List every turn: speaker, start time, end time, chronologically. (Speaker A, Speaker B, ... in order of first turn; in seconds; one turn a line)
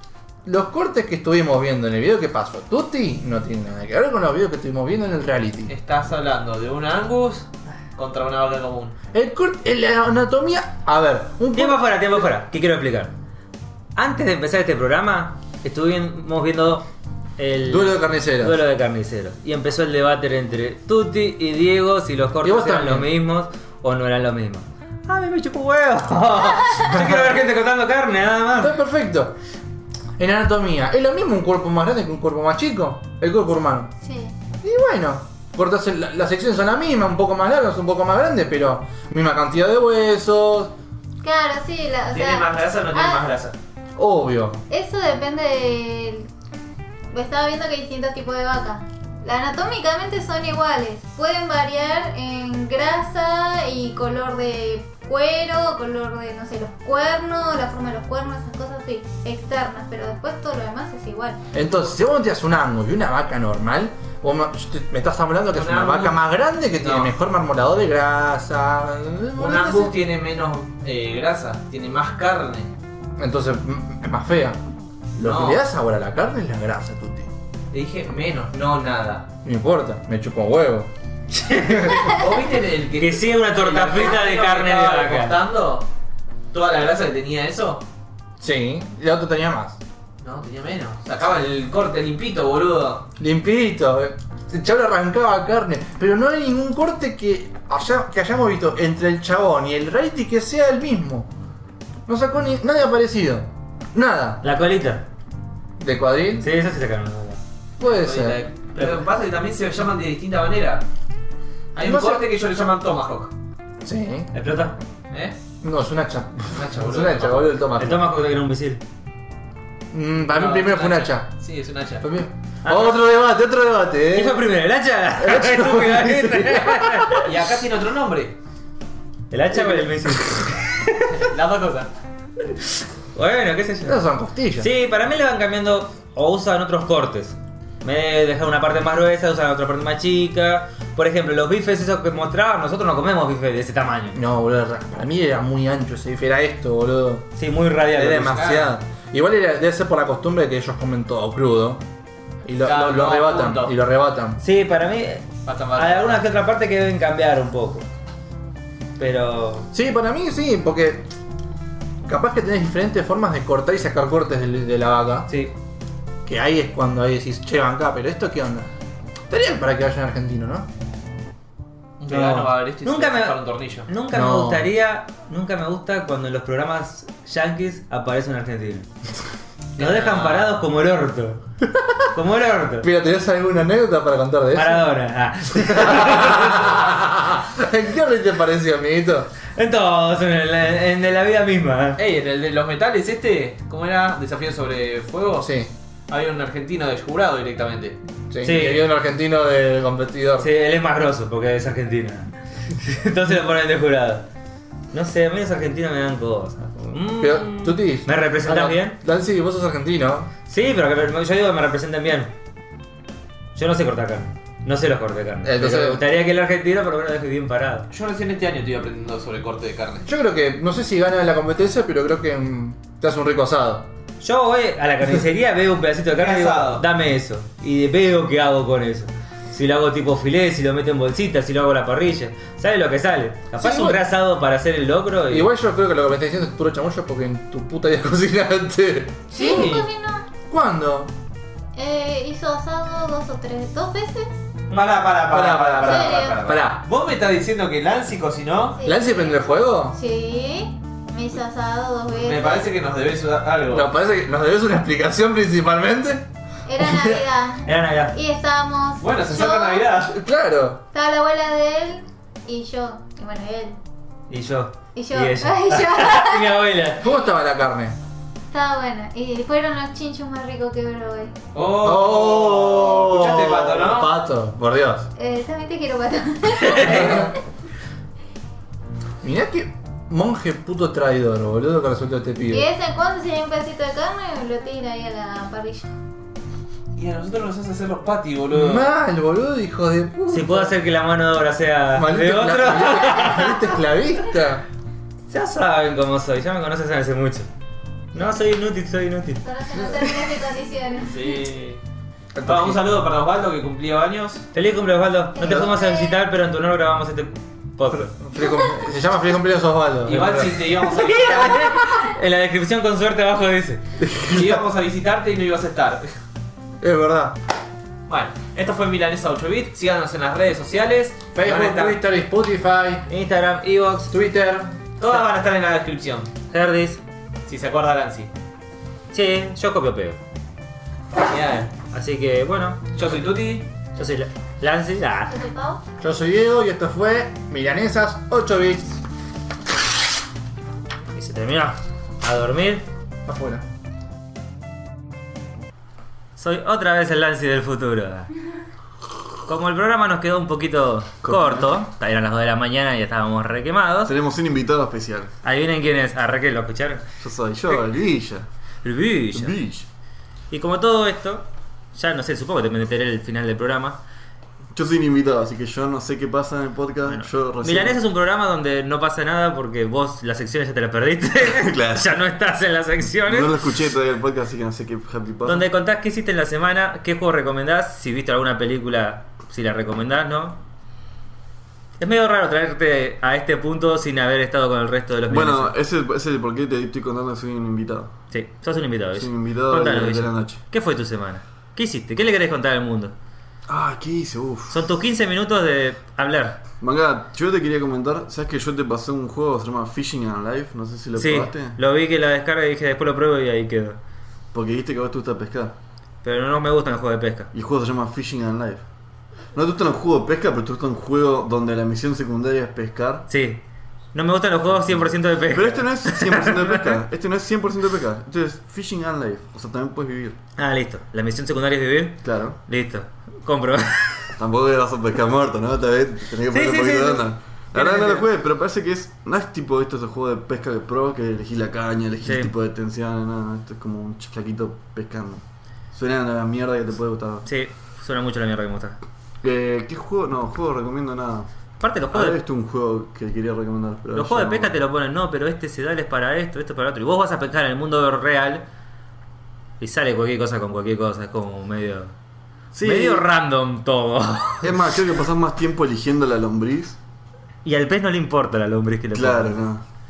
Speaker A: 0.4-5.7
Speaker B: 5.7-8.9
Speaker A: 9.1-12.0
Speaker C: 11.5-13.1
Speaker C: 13.9-16.8
Speaker C: 17.4-28.8
Speaker A: 17.7-18.6
Speaker A: 22.4-23.1
Speaker A: 26.9-27.2
Speaker A: 28.6-29.3
Speaker A: 30.2-33.9
Speaker D: 34.0-34.3
Speaker A: 34.6-40.7
Speaker D: 41.2-43.2
Speaker B: 42.1-43.5
Speaker A: 44.0-44.6
Speaker D: 44.7-46.3
Speaker D: 47.1-61.4
Speaker A: 61.5-69.9
Speaker B: 65.5-66.2
Speaker B: 66.8-67.1
Speaker B: 69.4-72.7
Speaker A: 73.2-74.6
Speaker A: 75.2-77.3
Speaker B: 75.2-75.6
Speaker B: 77.7-79.3
Speaker A: 79.4-80.9
Speaker C: 81.5-82.0
Speaker B: 81.7-85.9
Speaker A: 81.7-82.0
Speaker C: 83.0-85.4
Speaker B: 86.5-87.8
Speaker A: 88.4-89.8
Speaker B: 90.2-93.0
Speaker A: 93.2-101.3
Speaker A: 102.1-104.4
Speaker C: 104.4-105.0
Speaker A: 105.8-106.5
Speaker C: 106.4-107.4
Speaker A: 107.8-108.4
Speaker B: 107.8-110.8
Speaker B: 111.7-113.3
Speaker A: 111.8-112.2
Speaker A: 113.8-114.3
Speaker C: 114.3-114.8
Speaker A: 115.6-118.0
Speaker B: 116.5-117.5
Speaker C: 117.8-118.8
Speaker A: 119.9-121.3
Speaker B: 120.3-122.0
Speaker A: 122.0-124.5
Speaker C: 122.6-123.0
Speaker C: 124.1-127.3
Speaker A: 125.2-127.3
Speaker B: 127.2-128.3
Speaker C: 129.3-131.1
Speaker B: 131.1-131.9
Speaker C: 133.1-134.0
Speaker A: 133.8-134.7
Speaker C: 134.6-144.2
Speaker A: 144.1-147.2
Speaker C: 147.3-148.4
Speaker A: 147.9-151.8
Speaker B: 148.1-148.7
Speaker A: 152.4-154.4
Speaker B: 152.6-153.7
Speaker C: 154.4-157.8
Speaker B: 155.4-156.2
Speaker C: 159.0-159.7
Speaker A: 159.7-161.1
Speaker A: 162.0-165.3
Speaker C: 165.3-165.5
Speaker A: 166.2-168.7
Speaker A: 169.3-170.7
Speaker B: 172.0-173.9
Speaker A: 172.1-172.5
Speaker C: 172.8-178.9
Speaker A: 174.1-174.7
Speaker B: 179.8-180.5
Speaker C: 179.8-181.4
Speaker A: 181.7-182.1
Speaker C: 182.1-182.9
Speaker A: 182.8-184.9
Speaker C: 184.5-186.7
Speaker A: 185.5-189.3
Speaker C: 189.5-192.0
Speaker B: 192.0-195.5
Speaker A: 195.4-195.7
Speaker B: 196.1-197.9
Speaker A: 198.3-200.5
Speaker C: 198.4-198.8
Speaker C: 200.4-204.2
Speaker C: 204.9-209.0
Speaker A: 207.2-210.3
Speaker C: 210.5-212.3
Speaker C: 213.5-217.9
Speaker A: 215.4-216.0
Speaker B: 217.9-220.1
Speaker A: 220.0-223.9
Speaker C: 224.2-235.5
Speaker B: 226.2-226.8
Speaker A: 233.6-234.0
Speaker A: 235.3-239.8
Speaker D: 239.3-240.2
Speaker B: 239.4-239.8
Speaker A: 240.5-241.1
Speaker D: 241.8-244.3
Speaker B: 244.7-248.8
Speaker A: 245.3-246.8
Speaker D: 245.8-246.4
Speaker D: 248.7-252.7
Speaker A: 248.8-250.0
Speaker B: 252.1-253.9
Speaker A: 253.7-256.2
Speaker D: 256.6-259.9
Speaker C: 257.6-258.1
Speaker B: 259.0-260.2
Speaker A: 260.1-260.8
Speaker D: 260.9-263.8
Speaker C: 264.3-267.0
Speaker D: 264.9-266.6
Speaker A: 267.0-268.0
Speaker D: 268.5-271.3
Speaker B: 271.5-274.1
Speaker A: 271.8-275.1
Speaker D: 275.1-277.3
Speaker A: 276.8-277.3
Speaker A: 279.2-282.7
Speaker D: 282.5-285.9
Speaker B: 286.9-288.9
Speaker A: 288.5-290.7
Speaker C: 290.3-293.7
Speaker A: 291.9-294.6
Speaker C: 295.3-297.5
Speaker C: 298.1-299.4
Speaker D: 299.4-301.4
Speaker B: 301.0-301.8
Speaker A: 302.3-302.8
Speaker B: 302.4-304.4
Speaker C: 304.5-308.1
Speaker D: 305.3-306.2
Speaker A: 308.1-310.7
Speaker B: 310.1-311.8
Speaker C: 310.8-313.8
Speaker A: 314.0-314.6
Speaker B: 314.2-316.1
Speaker A: 316.8-317.4
Speaker B: 318.1-322.0
Speaker A: 321.3-323.1
Speaker C: 323.1-324.1
Speaker A: 324.1-324.7
Speaker B: 325.0-326.3
Speaker C: 326.5-327.0
Speaker B: 327.4-328.3
Speaker C: 329.1-330.2
Speaker B: 331.2-331.7
Speaker C: 331.9-332.8
Speaker B: 332.9-333.7
Speaker C: 334.0-335.3
Speaker D: 335.3-335.8
Speaker A: 336.0-339.0
Speaker C: 341.1-342.8
Speaker A: 343.2-343.6
Speaker C: 346.4-348.3
Speaker C: 349.4-354.1
Speaker E: 351.2-351.7
Speaker E: 354.0-355.3
Speaker C: 355.4-357.0
Speaker E: 357.2-358.4
Speaker C: 358.8-359.6
Speaker E: 359.3-359.9
Speaker C: 360.5-364.0
Speaker E: 364.7-368.0
Speaker C: 367.1-373.6
Speaker E: 371.4-372.1
Speaker E: 373.3-375.7
Speaker C: 375.4-380.6
Speaker C: 382.0-385.7
Speaker E: 385.3-388.1
Speaker C: 388.3-393.1
Speaker E: 389.1-390.6
Speaker E: 393.7-394.9
Speaker C: 394.7-396.6
Speaker E: 396.8-401.8
Speaker C: 401.1-404.0
Speaker E: 404.5-405.7
Speaker C: 406.2-407.5
Speaker E: 407.5-408.8
Speaker E: 409.5-413.3
Speaker C: 413.3-413.6
Speaker C: 414.1-416.9
Speaker E: 414.7-420.4
Speaker C: 420.6-424.3
Speaker E: 422.2-422.6
Speaker E: 424.4-437.5
Speaker C: 426.5-428.3
Speaker C: 432.2-432.5
Speaker C: 437.4-439.0
Speaker E: 439.4-441.5
Speaker C: 441.8-442.4
Speaker E: 442.1-444.8
Speaker C: 444.1-448.6
Speaker C: 449.8-452.1
Speaker E: 452.7-453.3
Speaker C: 452.8-454.7
Speaker E: 454.6-457.0
Speaker C: 457.6-459.6
Speaker E: 459.1-459.8